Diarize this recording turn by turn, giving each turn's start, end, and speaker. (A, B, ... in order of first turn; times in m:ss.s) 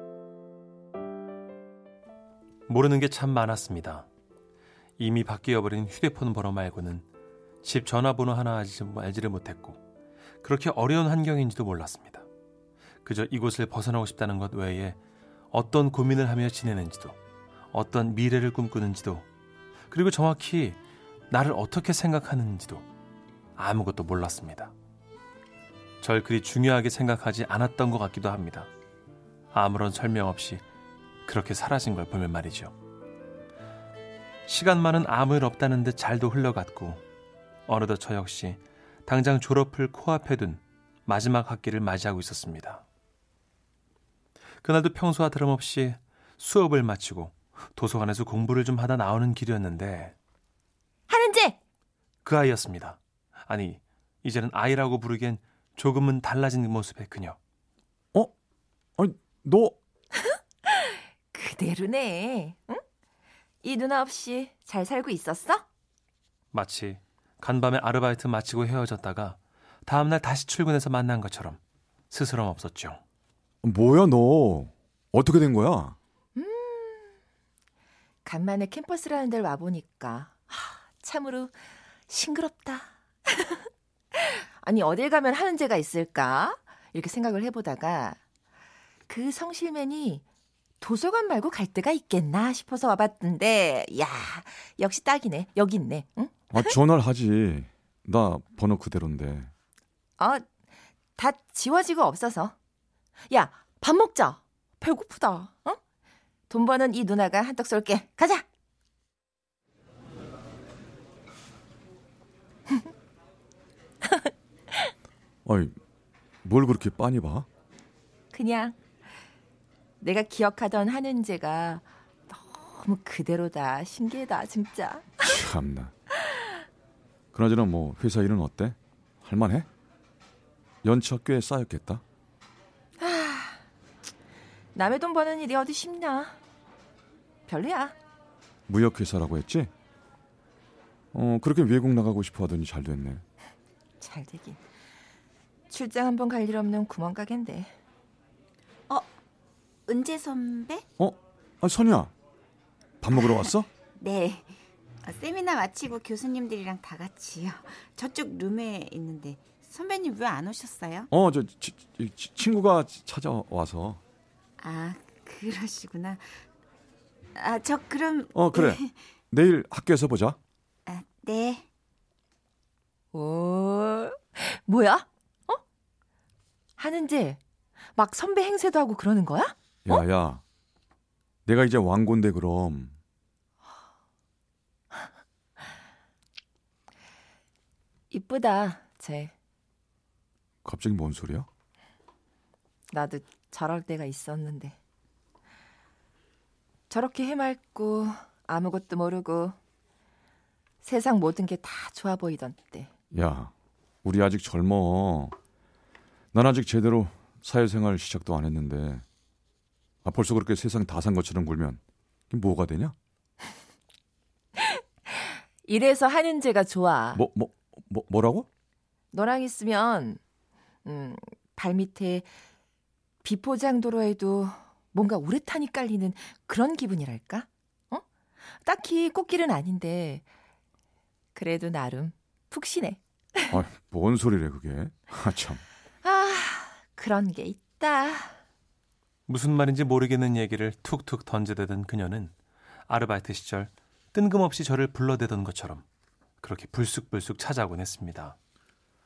0:02.7-0:04.1 A
0:05.0-0:07.0 A
0:07.6-0:09.8 A
0:10.4-0:12.2 A
0:13.0-0:15.0 A
0:15.5-0:17.2 A
0:17.7-0:19.2 A
0:19.9-0:20.8 A
0:21.3-0:22.8 A
0:23.6-0:24.7 A
0:26.0-0:28.7 A
0:29.5-0:30.6 A
0:31.2-0:32.7 A
0:34.4-0:37.0 A
0:37.7-0:42.8 A
0:44.6-0:50.1 A
0:51.1-0:51.6 B
0:52.2-0:57.4 A
0:59.0-0:59.8 C
1:00.2-1:02.8 B
1:03.6-1:05.6 B
1:06.5-1:11.6 A
1:12.1-1:13.0 A
1:13.6-1:16.0 C
1:16.3-1:17.1 B
1:18.2-1:21.6 B
1:22.1-1:28.2 B
1:29.1-1:30.2 B
1:30.8-1:36.7 B
1:36.5-1:39.5 C
1:40.2-1:40.4 B
1:41.2-1:42.5 B
1:43.3-1:45.8 B
1:46.5-1:48.4 B
1:55.4-1:55.8 C
1:56.4-1:57.5 C
1:58.3-1:58.8 B
2:00.0-2:05.4 B
2:05.2-2:05.9 C
2:06.1-2:06.6 B
2:07.3-2:09.7 C
2:10.8-2:12.0 C
2:13.0-2:13.6 B
2:14.7-2:16.4 B
2:17.5-2:17.9 B
2:18.7-2:19.7 C
2:21.1-2:23.2 C
2:24.0-2:24.6 B
2:25.7-2:27.7 B
2:28.9-2:29.1 D
2:29.9-2:30.8 D
2:31.0-2:32.1 C
2:33.0-2:33.7 C
2:33.3-2:41.1 D
2:41.1-2:44.0 C
2:44.6-2:46.4 D
2:47.3-2:48.9 D
2:48.3-2:50.4 C
2:50.9-2:51.7 D
2:53.1-2:55.6 B
2:56.8-2:57.4 B
2:57.9-3:00.0 B
2:59.8-3:00.4 C
3:01.4-3:02.9 C
3:08.1-3:09.3 B
3:10.6-3:11.5 C
3:12.9-3:14.8 B
3:16.9-3:19.6 B
3:20.8-3:22.9 B
3:23.1-3:23.5 C
3:24.0-3:25.3 C
3:26.3-3:29.0 C
3:30.0-3:32.9 C
3:34.6-3:37.2 B
3:37.1-3:38.5 C
3:39.1-3:40.2 B
3:40.8-3:42.3 B
3:43.2-3:48.0 B
3:48.6-3:50.2 B
3:51.3-3:53.6 B
3:53.5-3:55.6 C
3:56.0-3:58.4 B
3:59.3-4:02.3 A
4:02.9-4:05.8 A
4:06.4-4:08.4 A